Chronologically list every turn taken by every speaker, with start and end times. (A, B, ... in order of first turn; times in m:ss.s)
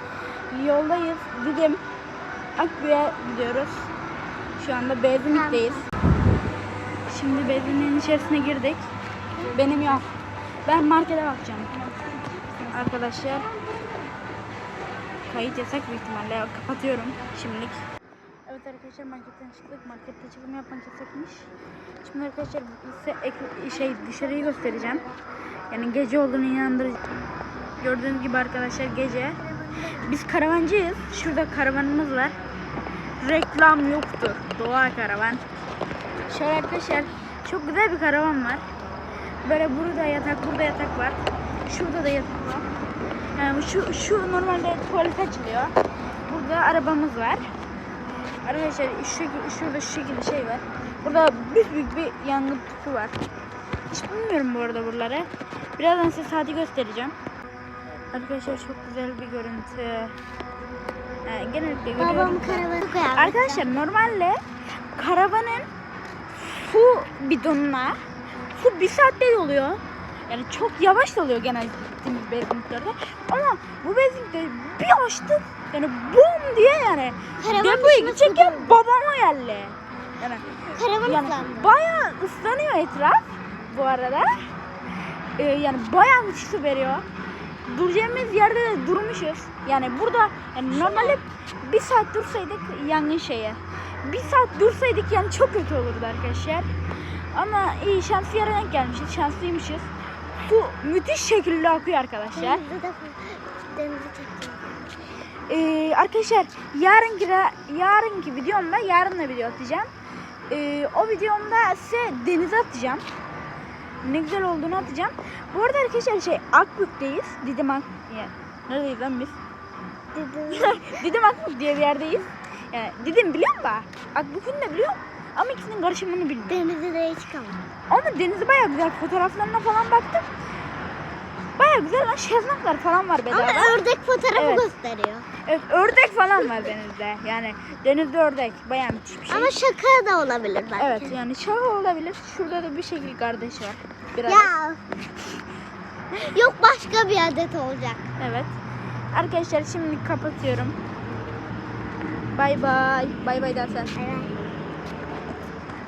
0:00.5-0:01.8 A
0:02.6-0:03.9 A
0:04.6-0:05.8 A
0:05.3-0:05.8 B
0:07.1-0:08.8 A
0:09.5-0:10.1 A
0:10.6-0:11.9 A
0:12.6-0:13.5 A
0:15.3-0:17.8 A
0:18.5-0:21.5 A
0:22.0-0:25.0 A
0:25.7-0:27.0 A
0:27.8-0:32.3 A
0:33.2-0:35.4 A
0:36.3-0:38.6 A
0:39.4-0:42.6 A
0:43.4-0:45.7 A
0:46.3-0:47.5 A
0:48.4-0:53.2 A
0:53.9-0:57.1 A
0:58.1-1:00.1 A
1:01.2-1:04.4 A
1:02.0-1:03.8 B
1:05.0-1:05.7 A
1:06.4-1:08.0 A
1:08.5-1:20.4 A
1:17.4-1:18.7 B
1:20.7-1:21.7 B
1:21.0-1:24.4 A
1:25.4-1:27.0 A
1:27.7-1:36.7 A
1:30.8-1:31.2 B
1:37.3-1:42.6 A
1:42.3-1:44.7 B
1:45.5-1:49.9 A
1:50.5-1:53.0 A
1:54.0-1:59.4 A
2:00.1-2:01.0 B
2:00.5-2:06.6 A
2:06.5-2:07.6 B
2:07.9-2:10.2 A
2:11.6-2:13.8 A
2:13.3-2:15.2 B
2:14.3-2:14.6 A
2:15.4-2:19.5 A
2:19.3-2:21.2 B
2:20.8-2:24.5 A
2:24.2-2:24.8 B
2:26.2-2:28.1 B
2:28.2-2:28.5 A
2:29.1-2:30.8 A
2:32.3-2:33.9 A
2:33.9-2:34.3 B